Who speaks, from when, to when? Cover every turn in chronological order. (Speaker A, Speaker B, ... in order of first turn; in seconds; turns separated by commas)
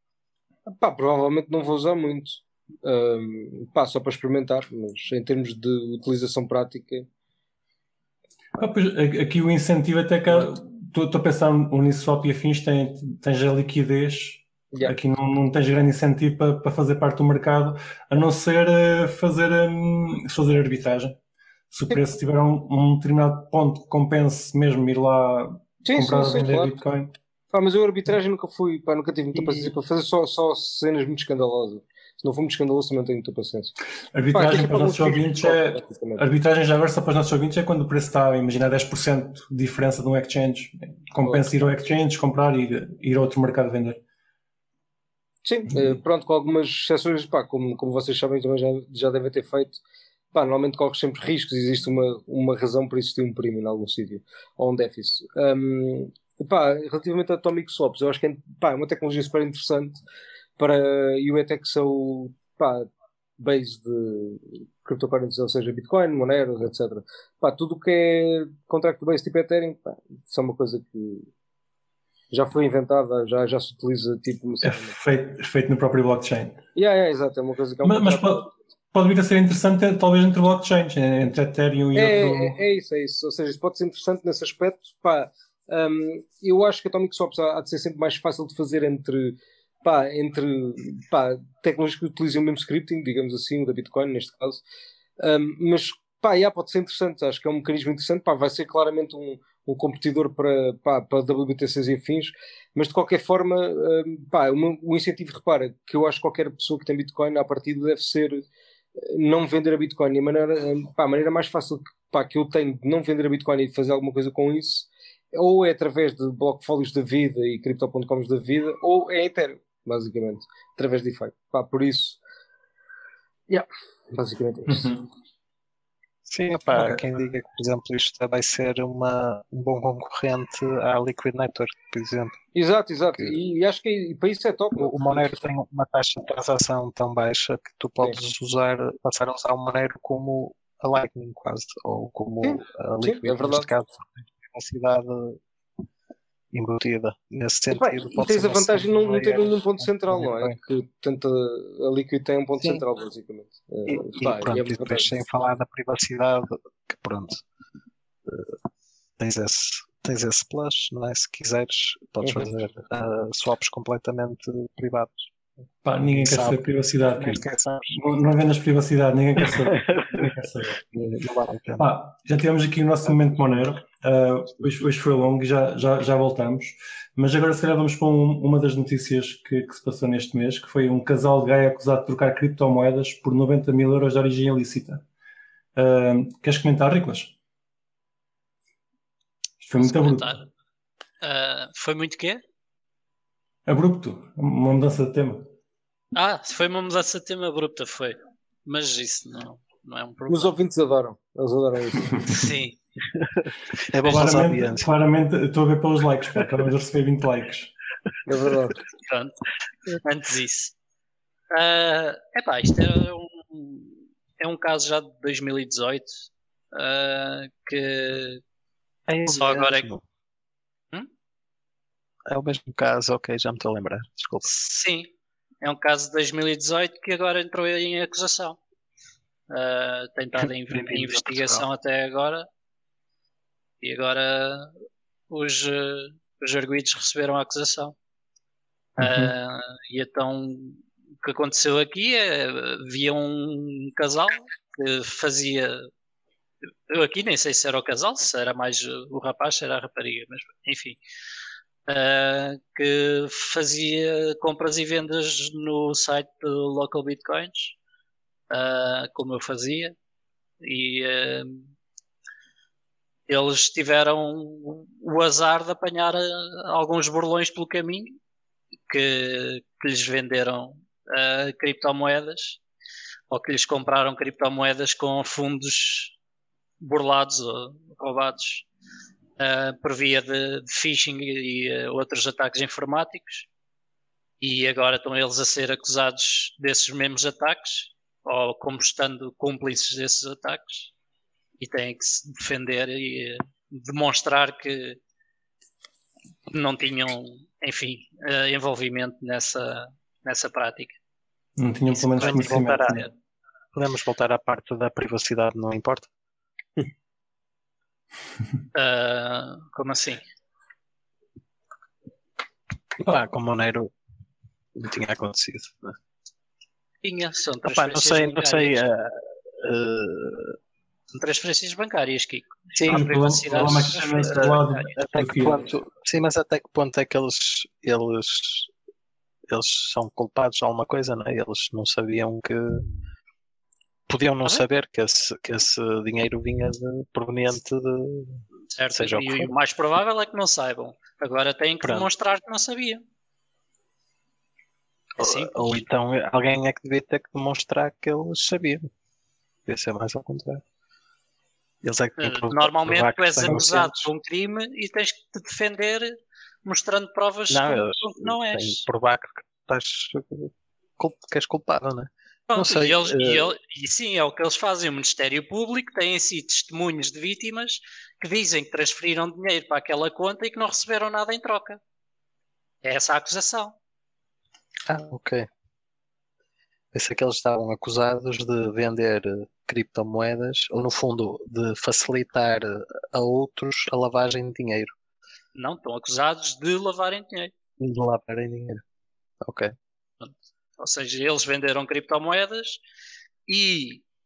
Speaker A: 0.7-7.1, Speaker B: 8.6-21.2, Speaker B: 21.7-27.1, Speaker A: 25.8-26.7, Speaker A: 27.5-33.7, Speaker C: 29.3-29.7, Speaker B: 34.1-44.0, Speaker A: 34.3-36.2, Speaker A: 41.2-41.5, Speaker A: 45.4-49.8, Speaker A: 50.3-60.0, Speaker A: 60.6-62.9, Speaker A: 63.4-71.3, Speaker A: 72.3-74.9, Speaker B: 74.6-76.6, Speaker A: 76.7-78.5, Speaker B: 77.8-82.6, Speaker A: 81.9-94.6, Speaker A: 95.2-108.4, Speaker A: 109.0-122.2, Speaker A: 123.5-125.0, Speaker B: 124.7-125.0, Speaker C: 126.3-132.3, Speaker B: 126.7-127.0, Speaker A: 132.5-135.3, Speaker C: 134.8-145.4, Speaker A: 142.4-143.7, Speaker C: 146.5-150.6, Speaker A: 147.7-155.1, Speaker C: 153.8-157.4, Speaker C: 158.3-158.5, Speaker C: 159.2-165.3, Speaker A: 162.2-162.5, Speaker B: 165.8-170.8, Speaker C: 166.0-168.0, Speaker C: 169.7-170.3, Speaker C: 170.9-171.8, Speaker B: 171.8-185.0, Speaker B: 185.7-187.3, Speaker B: 189.6-190.3, Speaker D: 189.8-190.5, Speaker D: 191.2-192.4, Speaker B: 193.7-195.5, Speaker D: 196.1-200.5, Speaker A: 200.3-202.2, Speaker D: 202.2-202.8, Speaker C: 203.1-204.9, Speaker B: 204.0-207.7, Speaker A: 208.2-208.8, Speaker D: 209.1-209.3, Speaker D: 210.0-210.7, Speaker D: 211.5-216.2, Speaker D: 216.7-218.4, Speaker C: 219.1-220.0, Speaker D: 219.3-219.9, Speaker C: 222.3-224.5, Speaker D: 224.4-225.1, Speaker D: 225.6-228.6, Speaker D: 229.5-232.5, Speaker C: 230.4-231.7, Speaker D: 233.8-234.7, Speaker D: 235.3-237.9, Speaker D: 239.0-245.9, Speaker C: 239.0-239.3, Speaker D: 246.9-251.0, Speaker D: 251.9-257.7, Speaker D: 258.5-259.9, Speaker D: 260.6-261.6, Speaker D: 263.3-268.1, Speaker D: 268.9-272.6, Speaker D: 273.3-276.1, Speaker D: 276.8-278.6, Speaker D: 279.4-283.4, Speaker D: 284.4-290.9, Speaker D: 291.6-295.0, Speaker D: 296.5-300.9, Speaker B: 301.6-303.1, Speaker D: 301.9-303.0, Speaker C: 302.2-303.1, Speaker C: 303.7-306.1, Speaker D: 308.7-310.2, Speaker C: 313.0-313.9, Speaker C: 314.7-315.9, Speaker D: 317.0-318.8, Speaker C: 317.6-320.6, Speaker D: 321.1-324.9, Speaker C: 322.7-328.7, Speaker B: 322.9-325.7, Speaker C: 329.5-332.8, Speaker C: 334.1-339.5, Speaker D: 338.7-343.0, Speaker C: 341.8-342.1, Speaker D: 345.2-345.8, Speaker C: 345.2-348.9, Speaker C: 349.6-350.6, Speaker C: 351.8-354.1, Speaker D: 352.2-358.8, Speaker C: 357.5-363.5, Speaker D: 362.5-371.8, Speaker D: 372.8-373.7, Speaker C: 374.9-375.5, Speaker C: 376.9-384.9, Speaker D: 385.5-387.5, Speaker C: 387.8-388.8, Speaker C: 389.4-389.7, Speaker D: 390.2-392.8, Speaker D: 393.5-394.0